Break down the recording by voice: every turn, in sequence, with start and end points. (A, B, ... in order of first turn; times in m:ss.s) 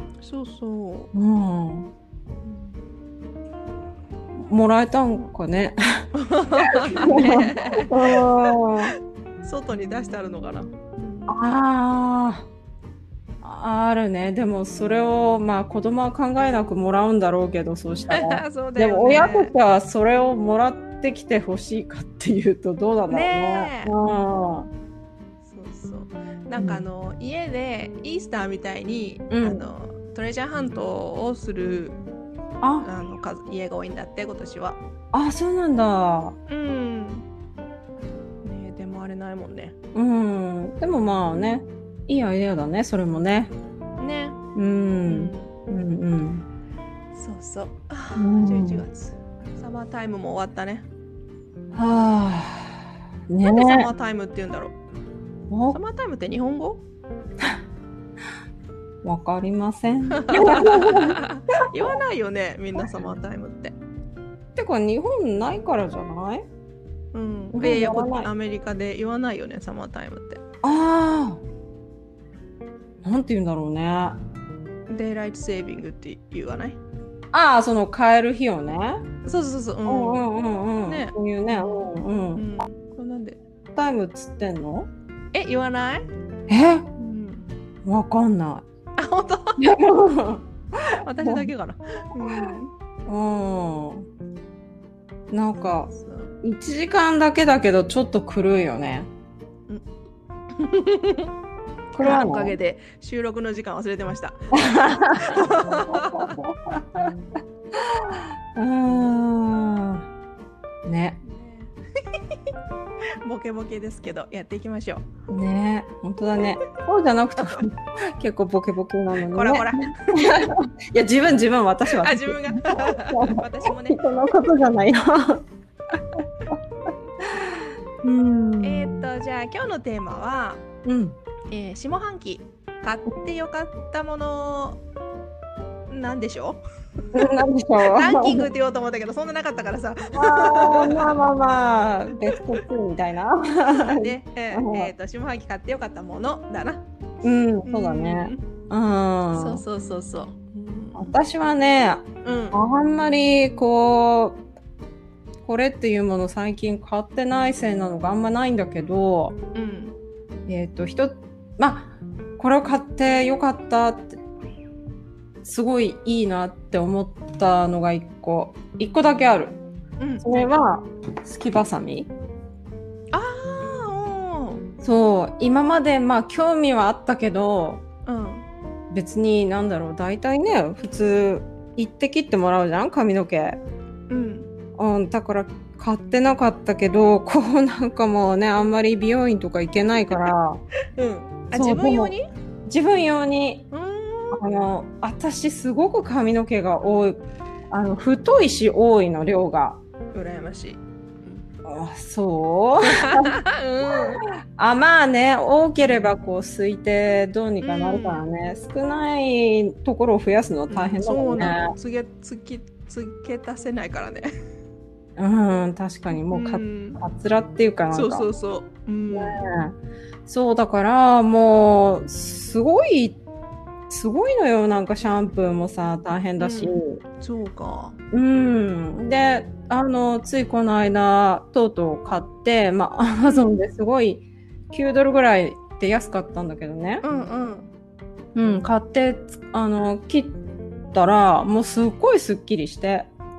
0:00.2-0:01.1 A
0:01.1-0:01.9 B
0:02.4-0:02.8 A
0:04.4-0:05.8 B
0:06.2-0:08.5 A
0:06.6-0:08.9 B
0:09.4-0:11.3 A
0:11.3-0:12.5 B
0:13.4-0:24.7 B
0:18.1-0:19.5 A
0:23.1-0:24.0 A
0:25.5-0:32.0 A
0:26.6-0:26.8 B
0:29.3-0:29.6 B
0:32.6-0:32.9 B
0:32.8-0:34.8 A
0:35.1-0:36.4 B
0:36.5-0:37.3 A
0:38.4-0:39.8 A
0:39.9-0:43.5 B
0:41.3-0:41.6 A
0:44.0-0:44.4 A
0:44.6-0:46.5 B
0:45.1-0:45.5 A
0:47.1-0:50.9 A
0:48.2-0:48.8 B
0:51.7-0:53.9 B
0:53.4-0:54.8 A
0:55.5-0:55.8 B
0:55.7-0:56.8 A
0:59.0-1:01.2 B
1:00.1-1:03.8 A
1:04.6-1:06.5 B
1:07.1-1:10.4 A
1:07.5-1:08.3 B
1:10.6-1:11.4 B
1:13.0-1:14.2 B
1:14.9-1:16.8 A
1:17.3-1:19.0 B
1:19.2-1:20.3 A
1:19.9-1:22.5 B
1:20.9-1:23.4 A
1:23.8-1:24.9 B
1:25.3-1:26.1 A
1:26.5-1:26.9 B
1:27.0-1:27.5 A
1:27.8-1:28.6 B
1:29.0-1:29.6 A
1:29.6-1:31.5 B
1:31.0-1:32.7 A
1:32.2-1:34.1 B
1:35.3-1:39.1 B
1:36.0-1:36.3 A
1:40.6-1:41.3 A
1:41.9-1:42.6 B
1:42.0-1:46.4 A
1:44.5-1:47.1 B
1:47.7-1:50.1 B
1:50.8-1:51.2 B
1:51.2-1:52.4 A
1:53.2-1:55.0 A
1:55.3-2:05.4 B
1:59.3-2:00.5 A
2:01.9-2:04.0 A
2:06.0-2:06.6 B
2:07.2-2:09.0 B
2:08.6-2:10.6 A
2:10.8-2:11.2 B
2:11.5-2:14.8 A
2:15.9-2:16.6 A
2:17.1-2:18.5 B
2:17.8-2:21.2 A
2:20.2-2:24.9 B
2:22.2-2:22.6 A
2:23.7-2:26.8 A
2:27.2-2:29.6 B
2:27.6-2:28.4 A
2:29.3-2:31.2 A
2:31.0-2:34.4 B
2:32.2-2:32.6 A
2:35.4-2:39.4 B
2:39.5-2:40.0 A
2:40.5-2:44.2 B
2:45.4-2:49.6 B
2:50.0-2:50.6 A
2:50.2-2:52.1 B
2:53.1-2:54.6 A
2:54.8-2:57.8 B
2:58.0-2:58.5 A
2:58.9-3:03.6 B
3:04.1-3:04.5 A
3:04.8-3:10.6 B
3:11.0-3:12.2 A
3:11.5-3:12.1 B
3:12.7-3:13.7 B
3:13.7-3:14.4 A
3:14.3-3:19.8 B
3:20.1-3:21.4 A
3:21.6-3:23.4 B
3:22.8-3:24.2 A
3:23.9-3:31.7 B
3:27.6-3:28.3 A
3:30.7-3:34.3 A
3:35.2-3:38.3 B
3:36.2-3:37.0 A
3:37.9-3:39.5 A
3:39.1-3:43.2 B
3:43.9-3:47.0 B
3:46.4-3:48.0 A
3:48.1-3:57.0 B
3:53.2-3:53.6 A
3:57.0-3:57.7 A
3:58.4-4:00.4 B
4:00.9-4:03.1 B